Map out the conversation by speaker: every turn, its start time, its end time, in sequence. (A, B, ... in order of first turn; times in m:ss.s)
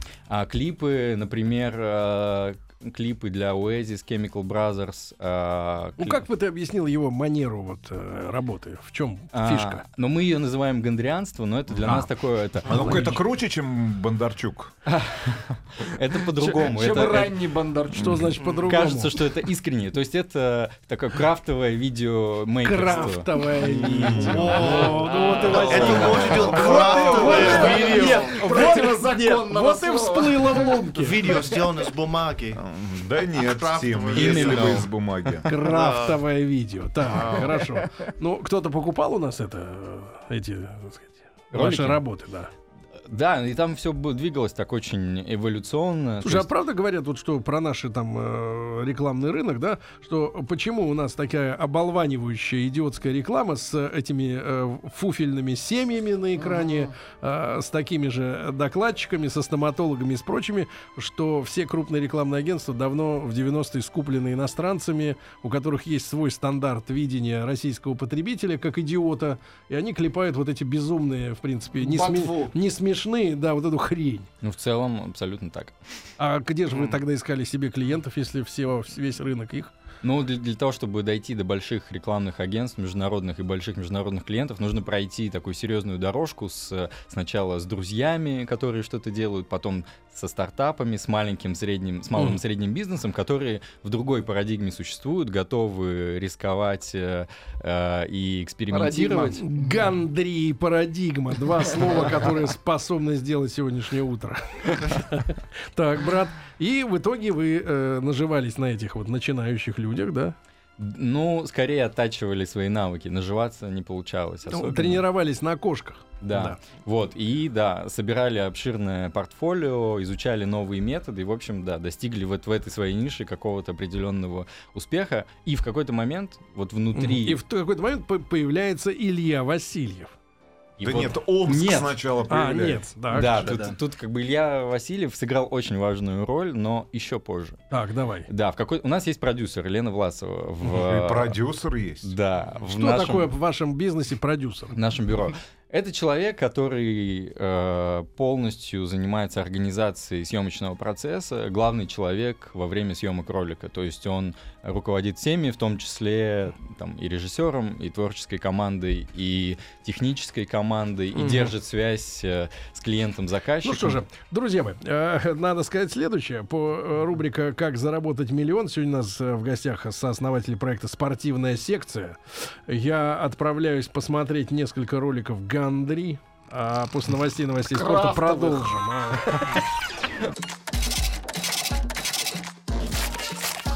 0:00.3-0:06.2 A
0:06.0-0:09.8 B
0:09.3-0:13.2 A
0:11.7-0:12.1 C
0:12.6-0:14.7 C
0:12.9-0:13.1 B
0:14.9-0:17.4 A
0:16.4-0:18.2 D
0:17.9-0:18.4 C
0:17.9-0:19.2 B
0:18.7-0:24.7 A
0:22.6-0:31.3 B
0:23.9-0:24.5 C
0:24.2-0:28.6 E
0:25.1-0:31.6 D
0:25.7-0:27.5 C
0:25.8-0:26.2 A
0:30.9-0:32.6 E
0:32.5-0:35.5 C
0:33.3-0:34.9 E
0:34.1-0:34.9 A
0:35.4-0:42.5 B
0:35.5-0:36.2 E
0:37.0-0:37.7 E
0:41.5-0:42.0 A
0:43.1-0:46.5 A
0:46.2-1:14.3 B
1:11.8-1:12.5 D
1:14.4-1:15.8 A
1:16.2-1:19.7 B
1:20.0-1:39.4 A
1:32.2-1:32.4 B
1:38.7-1:39.9 D
1:39.2-1:50.4 B
1:50.8-1:55.0 A
1:54.5-1:56.6 B
1:56.2-2:07.4 A
2:06.9-2:10.1 B
2:10.8-2:12.0 A
2:10.8-2:12.9 C
2:12.3-2:13.5 B
2:13.1-2:17.6 A
2:17.7-2:18.3 B
2:18.3-2:21.3 A
2:20.6-2:22.1 C
2:22.0-2:23.3 A
2:22.6-2:24.8 B
2:24.7-2:44.0 A
2:41.1-2:41.5 B
2:43.6-2:59.6 B
2:57.7-2:58.7 D